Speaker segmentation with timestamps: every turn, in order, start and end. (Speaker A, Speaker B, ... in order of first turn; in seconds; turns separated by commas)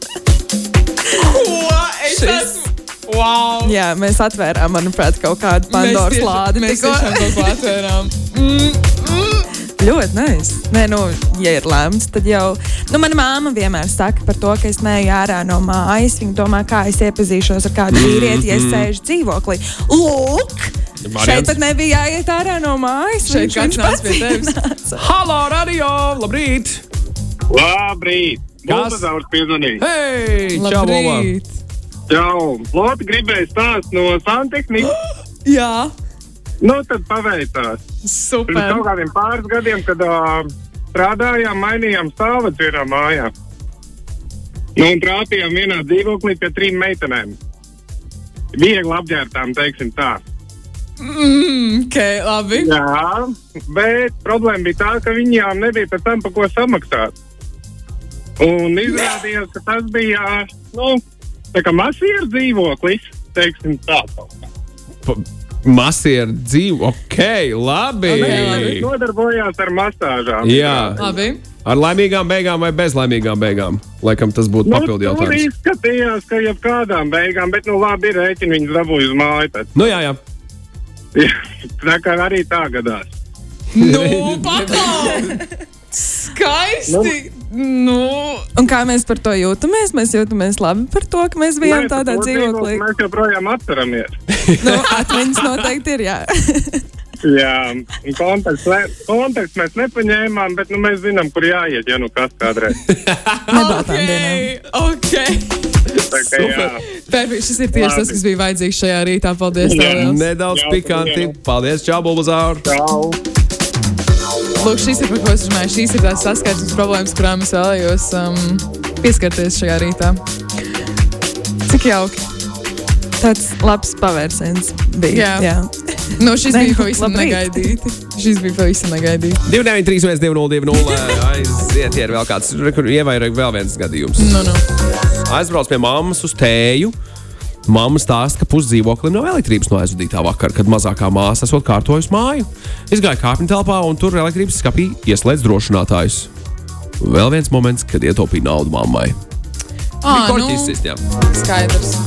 Speaker A: 1.1-3.8, Speaker B: 2.1-2.6, Speaker B: 3.6-7.6, Speaker A: 5.7-9.5, Speaker B: 9.8-25.0, Speaker C: 17.9-18.9, Speaker C: 21.0-21.6, Speaker A: 23.2-24.6, Speaker C: 25.0-26.8, Speaker D: 27.5-29.8, Speaker C: 28.7-29.1, Speaker C: 29.8-31.3, Speaker A: 30.5-31.6, Speaker D: 32.1-34.9, Speaker A: 34.8-35.9, Speaker D: 36.6-37.8, Speaker A: 38.0-38.8, Speaker D: 38.5-43.3, Speaker D: 44.8-47.4, Speaker D: 48.5-50.2, Speaker A: 51.0-52.7, Speaker D: 52.6-57.1, Speaker D: 58.4-61.0, Speaker D: 61.5-64.3, Speaker C: 65.0-68.9, Speaker A: 68.1-68.8, Speaker D: 68.1-71.2, Speaker C: 70.4-71.0, Speaker A: 71.0-71.4, Speaker C: 71.6-75.5, Speaker D: 74.6-79.7, Speaker C: 79.8-80.2, Speaker D: 81.1-83.1, Speaker A: 83.7-85.4, Speaker C: 83.8-85.4, Speaker A: 85.9-88.5, Speaker D: 86.9-87.1, Speaker B: 88.6-92.8, Speaker D: 91.6-94.1, Speaker C: 94.3-95.5, Speaker B: 94.6-96.8, Speaker D: 97.2-102.8, Speaker C: 102.9-103.6, Speaker B: 103.5-104.5, Speaker A: 103.5-105.5, Speaker C: 106.0-106.8, Speaker D: 106.1-106.8, Speaker A: 106.9-110.2, Speaker D: 107.7-108.1, Speaker D: 109.6-111.3, Speaker C: 109.9-112.6, Speaker D: 112.6-113.2, Speaker A: 114.6-120.2, Speaker A: 121.7-122.2, Speaker B: 123.2-127.7, Speaker A: 125.1-125.5, Speaker A: 126.1-129.4, Speaker C: 129.4-134.4, Speaker A: 134.2-134.6, Speaker C: 135.2-136.9, Speaker C: 137.7-146.3, Speaker C: 147.0-149.2, Speaker A: 150.0-152.0, Speaker C: 150.1-151.0